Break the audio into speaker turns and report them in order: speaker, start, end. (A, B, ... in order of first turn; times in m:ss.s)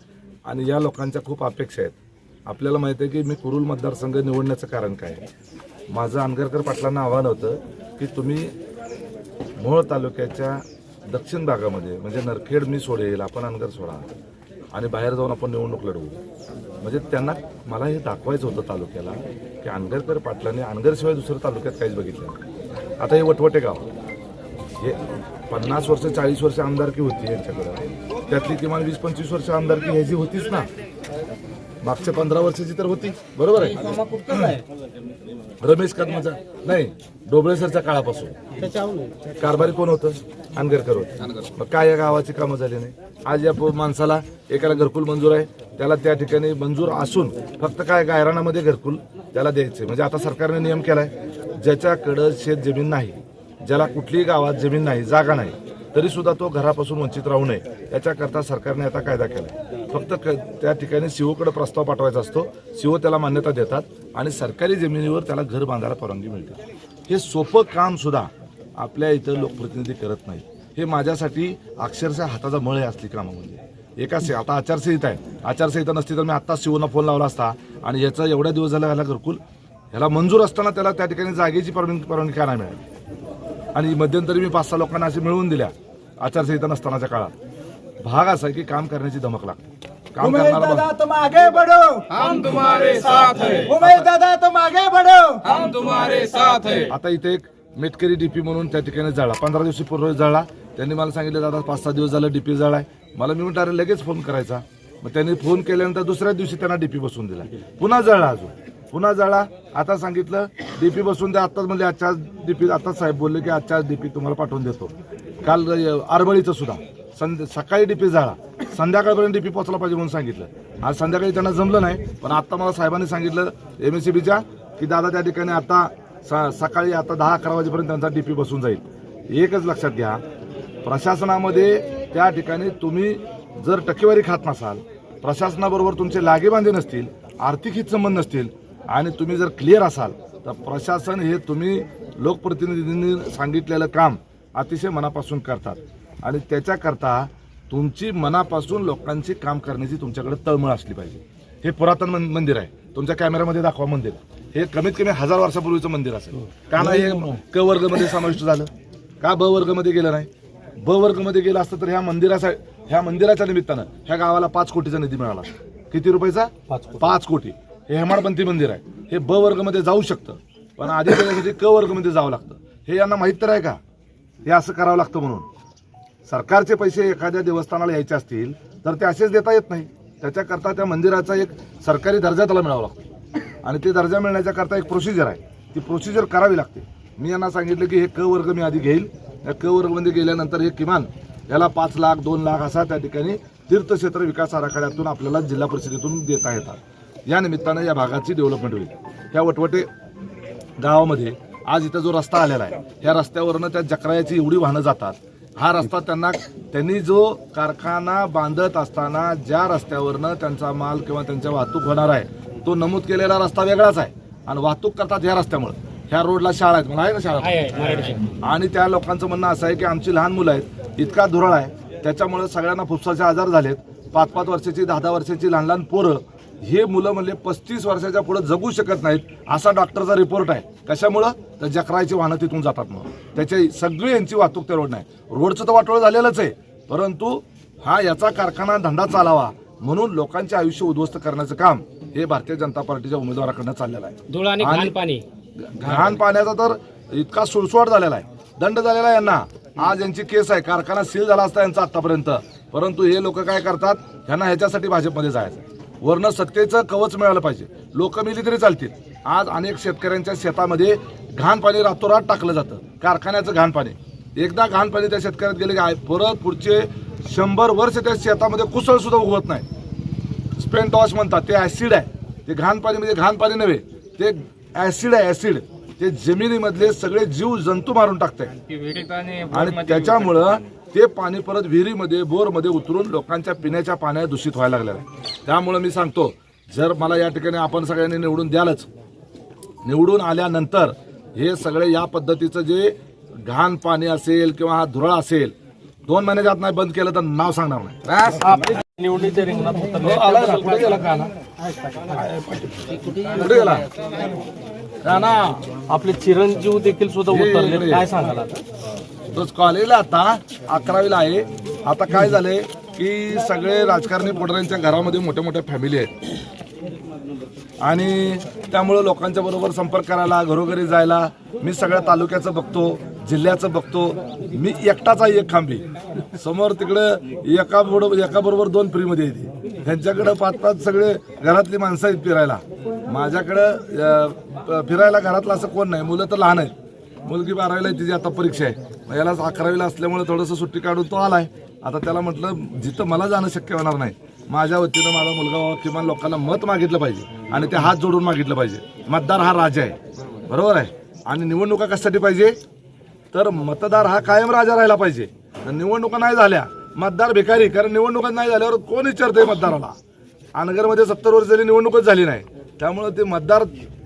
0:00.4-0:01.9 A
0:02.5-0:05.2 A
0:05.9-0:08.5 A
0:09.6-0:14.1 A
0:14.7-0:16.2 A
0:16.8-0:22.4 A
0:23.0-0:23.9 A
0:24.8-0:30.7 A
0:31.8-0:34.6 A
0:33.8-0:34.6 B
0:35.6-0:38.3 A
0:38.6-0:39.1 B
0:39.4-1:19.4 A
1:19.9-1:22.8 A
1:23.7-1:27.3 A
1:28.0-1:29.6 A
1:30.1-1:30.9 A
1:30.2-1:36.6 C
1:32.4-1:33.6 D
1:33.6-1:34.1 A
1:35.5-1:36.8 D
1:36.8-2:10.2 A
2:10.8-2:38.7 A
2:36.8-2:37.4 E
2:39.2-2:40.3 A
2:40.8-2:53.8 A
2:46.7-2:47.1 E
2:54.4-2:55.5 A
2:56.2-3:03.0 A
3:03.6-3:19.9 A
3:20.8-4:05.0 A
3:37.4-3:38.3 B
4:04.3-4:05.2 B
4:05.6-4:29.6 A
4:30.6-4:38.5 A
4:38.6-4:40.4 D
4:39.5-4:48.9 A
4:49.8-4:55.5 A
4:56.1-4:58.3 A
4:58.2-5:00.9 E
5:00.0-5:01.3 A
5:02.0-5:03.9 A
5:05.0-5:05.6 A
5:05.9-5:08.6 E
5:07.3-5:08.1 A
5:09.3-5:16.1 A
5:17.8-5:36.7 A
5:37.2-5:52.6 A
5:53.3-6:00.0 A
6:00.6-6:03.8 A